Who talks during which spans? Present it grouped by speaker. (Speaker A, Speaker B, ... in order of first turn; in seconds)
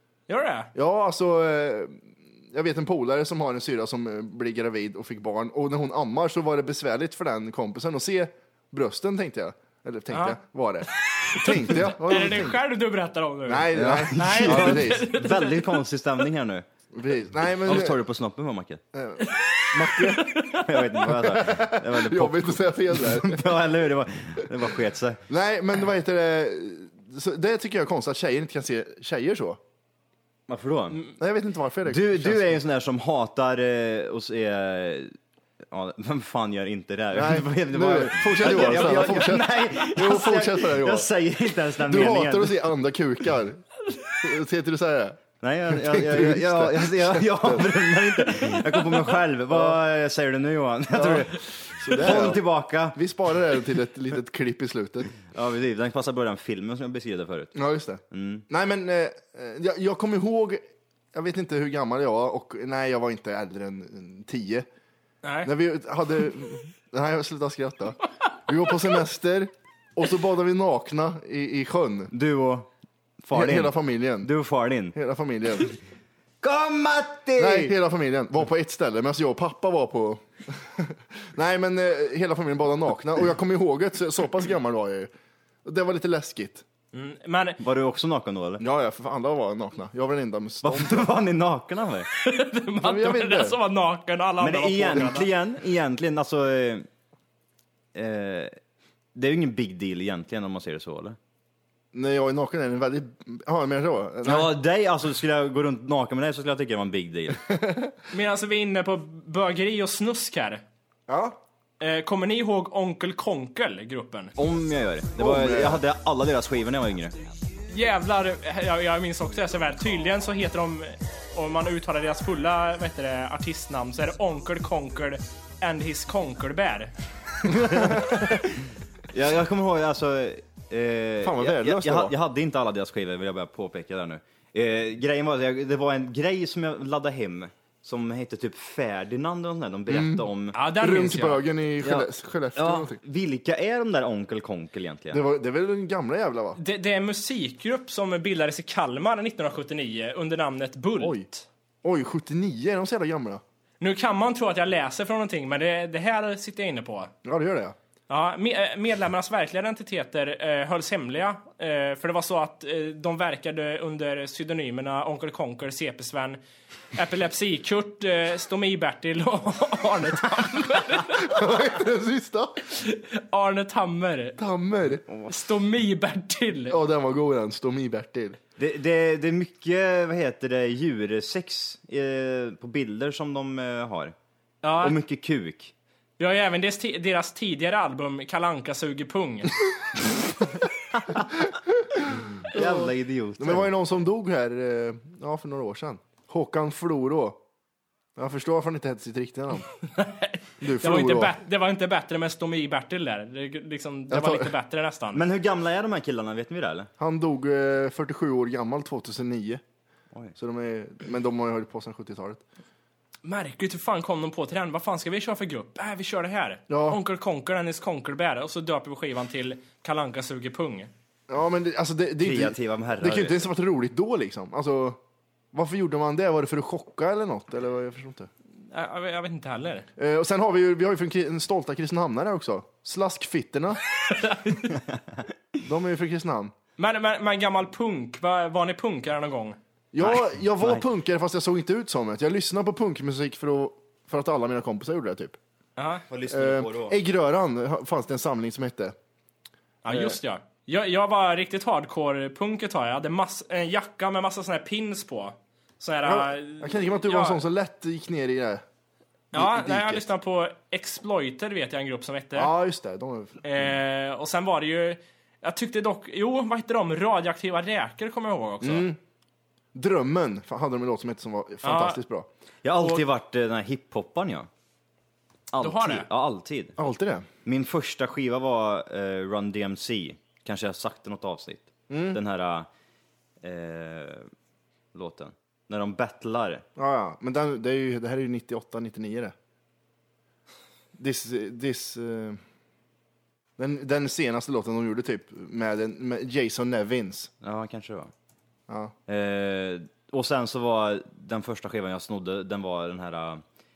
Speaker A: 0.3-0.7, 10.1-10.4, 11.1-15.7, 19.3-20.6, 65.2-65.5, 86.9-87.6, 92.2-95.3, 108.1-110.6, 111.8-114.3, 117.7-126.9, 140.5-141.4, 146.6-151.5, 153.8-157.1, 158.1-166.4, 166.9-171.4, 172.7-174.4, 175.3-176.8, 184.6-185.0, 186.2-189.5, 200.0-205.2, 213.2-220.9, 228.7-229.9, 234.1-234.8, 236.8-239.6, 245.8-246.0, 249.8-257.4, 259.3-262.5, 263.4-268.9, 271.6-272.0, 275.6-276.1
Speaker B: 0.8-12.6, 13.5-15.1, 16.9-18.0, 18.9-20.4, 21.1-23.5, 25.3-29.6, 31.2-32.6, 37.1-41.1, 41.8-43.6, 44.2-47.7, 49.5-49.8, 50.9-55.2, 57.5-64.7, 65.4-72.1, 73.3-74.3, 74.9-75.8, 77.4-85.1, 85.6-86.6, 88.6-91.1, 92.8-93.6, 101.9-104.5, 107.6-107.9, 111.1-111.4, 115.2-115.8, 127.6-128.4, 131.2-132.2, 139.9-143.0, 145.1-146.6, 151.0-151.3, 151.8-153.4, 157.2-157.8, 171.1-172.6, 174.4-175.1, 176.7-178.4, 192.0-197.4, 198.2-199.7, 200.6-201.4, 204.1-204.5, 207.0-209.6, 210.4-212.4, 216.7-217.0, 221.3-225.0, 225.5-228.3, 230.0-233.8, 235.6-236.5, 239.9-245.4, 246.3-248.9, 249.9-250.2, 256.0-258.6, 259.3-260.1, 262.4-263.7, 268.6-269.0, 269.7-272.3, 276.8-277.3, 281.9-282.2, 286.8-289.4, 291.0-292.4, 293.6-297.3, 298.7-298.9
Speaker C: 13.7-16.7, 17.6-18.8, 20.6-25.2, 30.5-31.0, 31.9-35.1, 35.7-42.6, 45.4-53.0, 55.3-57.6, 58.1-58.5, 72.1-72.7, 73.2-75.0, 76.4-77.7, 87.6-88.6, 90.6-92.1, 94.4-96.9, 98.0-98.5, 99.2-101.2, 104.2-107.5, 114.4-117.2, 127.6-128.3, 129.1-140.6, 141.8-145.2, 178.6-184.1, 184.8-185.7, 192.5-193.7, 205.1-206.9, 222.2-223.5, 240.1-240.8, 246.1-247.0, 272.6-274.5, 275.5-276.8, 277.4-282.7, 283.4-284.3, 284.9-286.6, 297.4-298.1, 299.1-303.4